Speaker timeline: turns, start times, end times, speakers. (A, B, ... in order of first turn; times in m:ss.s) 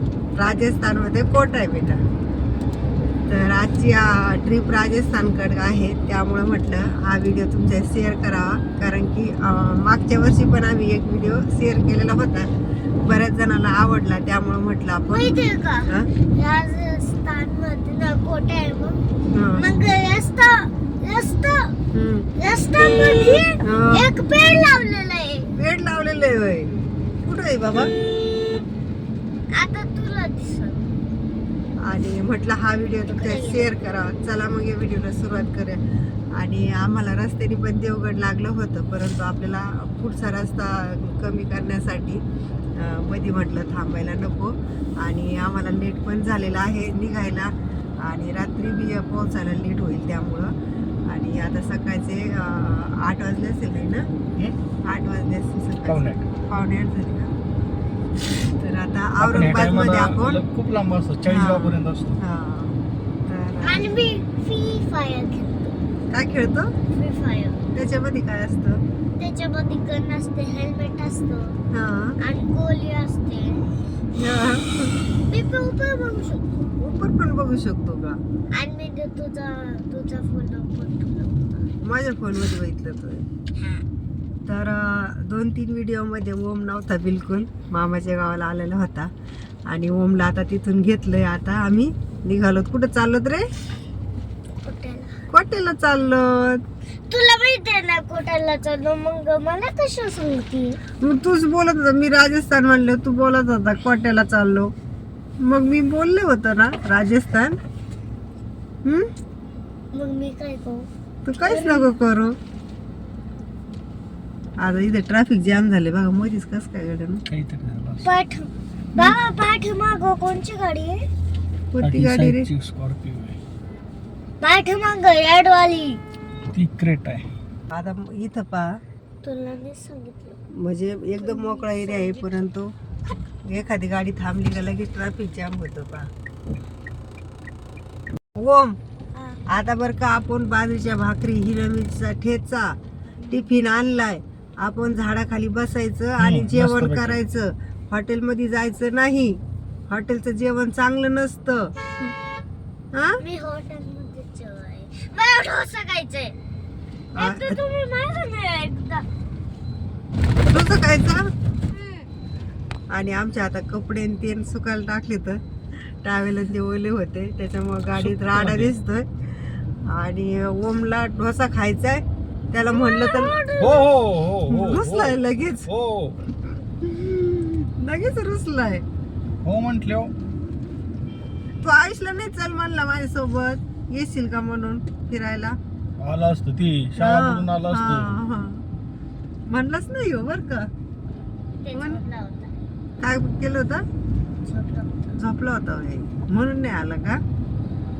0:00.3-0:02.0 A
0:03.3-0:12.5 A
0:13.0-0:15.4 A
0:15.1-0:19.0 B
0:19.3-0:19.6 A
0:19.6-0:21.7 B
0:21.9-0:22.3 A
0:22.4-0:25.5 B
0:23.6-0:24.1 A
0:25.6-0:26.7 A
0:27.2-0:27.9 A
0:29.5-0:30.9 B
0:31.8-0:35.8 A
0:33.1-0:33.8 B
0:36.4-0:42.2 A
0:42.8-0:50.5 A
0:51.1-0:54.0 A
0:54.8-0:57.3 A
0:55.8-0:56.2 C
0:58.6-1:00.4 A
0:59.2-1:02.2 C
1:01.3-1:03.9 A
1:03.6-1:05.8 B
1:06.1-1:06.7 A
1:06.9-1:07.6 B
1:07.7-1:08.8 A
1:09.2-1:11.6 B
1:11.7-1:12.2 A
1:12.2-1:13.7 B
1:14.1-1:14.9 A
1:15.3-1:16.5 B
1:16.8-1:18.2 A
1:18.5-1:21.7 B
1:21.8-1:23.2 A
1:23.6-1:23.8 B
1:24.5-1:29.1 A
1:29.7-1:33.5 A
1:34.6-1:35.1 B
1:35.3-1:36.6 A
1:37.1-1:40.8 B
1:41.0-1:44.7 A
1:45.4-1:47.6 A
1:49.9-1:50.9 B
1:51.2-1:52.4 A
1:51.4-1:51.9 B
1:54.6-1:57.2 A
1:57.3-1:58.1 C
1:58.0-2:01.0 B
2:01.7-2:02.5 A
2:01.8-2:03.4 C
2:04.4-2:06.0 B
2:06.5-2:07.2 C
2:07.7-2:08.7 A
2:09.2-2:10.4 B
2:10.5-2:12.7 A
2:11.2-2:12.5 B
2:13.4-2:16.1 A
2:18.4-2:18.8 A
2:19.5-2:22.8 A
2:23.3-2:31.7 A
2:26.2-2:27.2 C
2:33.2-2:36.3 B
2:37.1-2:37.6 A
2:37.2-2:39.0 B
2:40.4-2:41.3 A
2:41.7-2:42.0 B
2:42.9-2:45.4 A
2:46.0-2:49.1 A
2:48.0-2:48.7 C
2:49.9-2:53.3 A
2:52.6-2:53.9 B
2:53.6-2:56.2 C
2:54.5-2:55.7 A
2:56.8-2:58.8 A
2:59.4-3:00.1 C
3:01.6-3:05.6 A
3:06.0-3:08.1 C
3:07.0-3:08.6 A
3:09.5-3:10.7 A
3:11.6-3:12.5 B
3:11.7-3:12.0 A
3:13.0-3:13.8 A
3:14.5-3:17.2 A